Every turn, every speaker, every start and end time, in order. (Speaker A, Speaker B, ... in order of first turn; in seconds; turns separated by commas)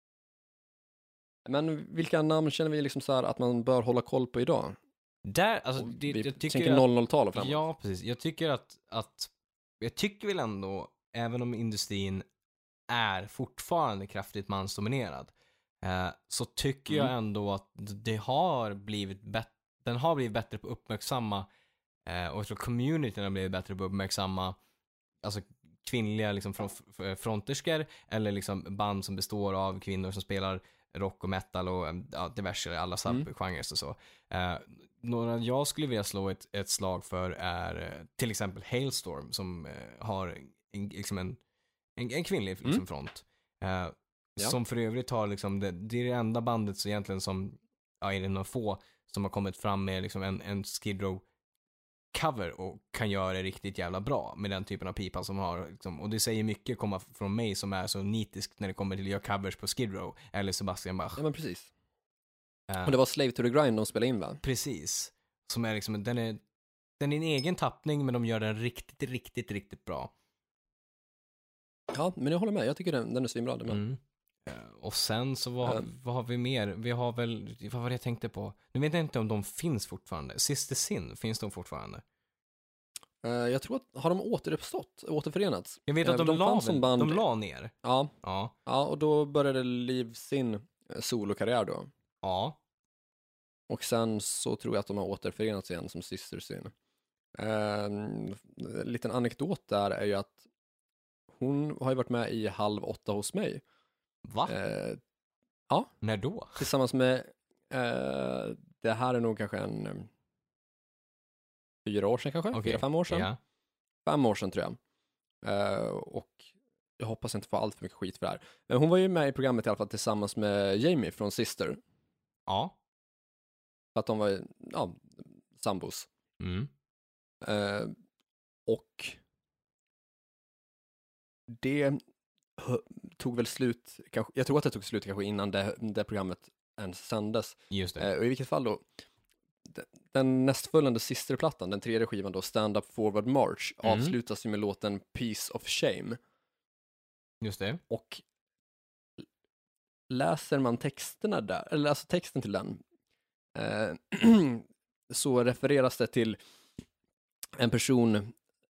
Speaker A: 1.5-4.8, Speaker B: 5.2-12.2, Speaker A: 5.8-7.6, Speaker B: 12.9-21.5, Speaker B: 22.1-24.6, Speaker B: 25.2-41.4, Speaker B: 42.0-51.2, Speaker B: 52.1-61.2, Speaker A: 61.2-61.7, Speaker B: 62.7-62.9, Speaker A: 62.8-64.4, Speaker B: 64.4-66.4, Speaker B: 67.0-70.1, Speaker A: 71.9-73.8, Speaker B: 73.7-82.0, Speaker A: 83.2-87.2, Speaker B: 85.9-87.7, Speaker A: 87.8-88.1, Speaker B: 88.2-88.5, Speaker A: 88.7-91.9, Speaker B: 92.2-92.6, Speaker A: 93.7-96.7, Speaker A: 97.4-100.4, Speaker A: 101.4-103.6, Speaker B: 104.2-104.5, Speaker A: 104.5-105.0, Speaker B: 106.0-106.7, Speaker A: 106.6-110.1, Speaker A: 111.8-113.3, Speaker B: 112.5-113.4, Speaker A: 114.1-114.8, Speaker A: 115.4-116.5, Speaker A: 117.0-121.8, Speaker B: 122.5-122.8, Speaker A: 124.0-126.1, Speaker B: 126.4-126.7, Speaker A: 127.4-127.9, Speaker A: 128.7-129.2, Speaker A: 131.5-132.0, Speaker A: 132.6-138.8, Speaker B: 137.7-138.1, Speaker A: 139.7-146.2, Speaker B: 143.8-144.1, Speaker B: 147.4-147.8, Speaker A: 147.9-148.2, Speaker A: 150.1-152.8, Speaker A: 153.6-156.4, Speaker A: 157.6-158.3